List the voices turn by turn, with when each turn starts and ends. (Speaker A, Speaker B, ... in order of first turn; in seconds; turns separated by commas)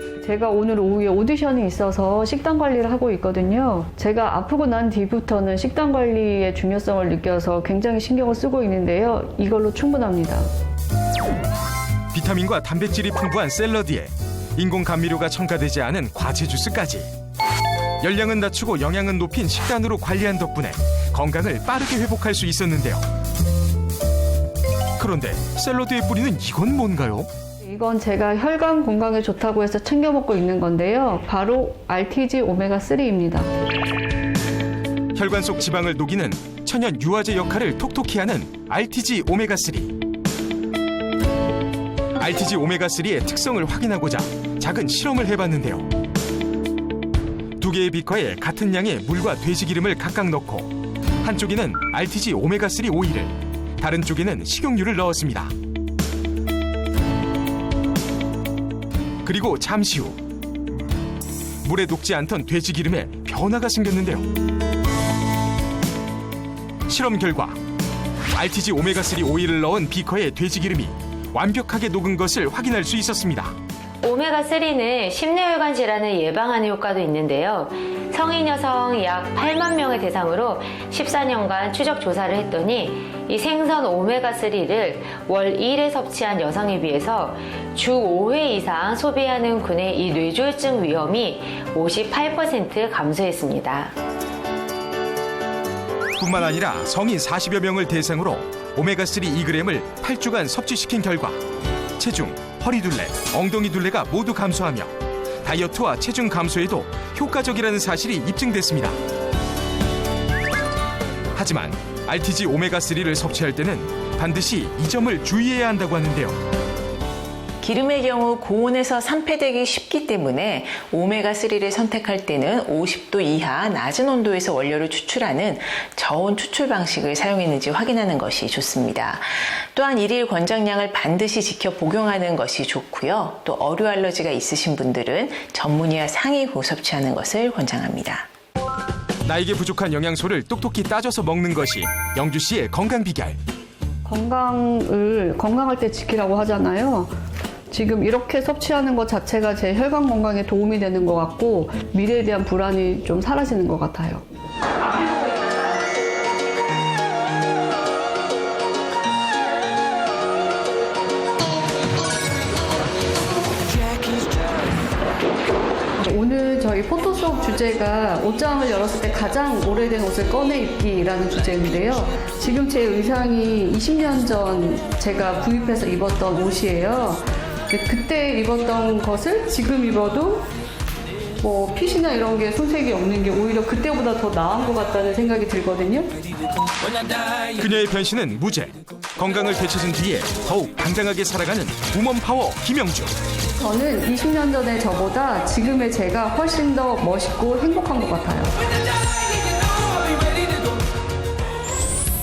Speaker A: 0.2-10.5, Speaker B: 12.1-17.1, Speaker B: 18.0-23.0, Speaker B: 25.0-27.3, Speaker A: 27.6-33.5, Speaker B: 35.1-40.0, Speaker B: 42.2-45.9, Speaker B: 47.6-55.5, Speaker B: 59.2-60.2, Speaker B: 61.6-64.3, Speaker B: 66.8-67.6, Speaker B: 68.3-73.5, Speaker C: 74.0-93.9, Speaker B: 96.2-101.4, Speaker B: 102.0-109.0, Speaker B: 111.3-116.3, Speaker D: 117.6-138.3, Speaker B: 139.2-143.4, Speaker A: 144.0-147.1, Speaker A: 147.7-154.2, Speaker A: 166.0-180.5, Speaker A: 181.4-186.1, Speaker B: 187.5-193.1, Speaker A: 193.6-198.6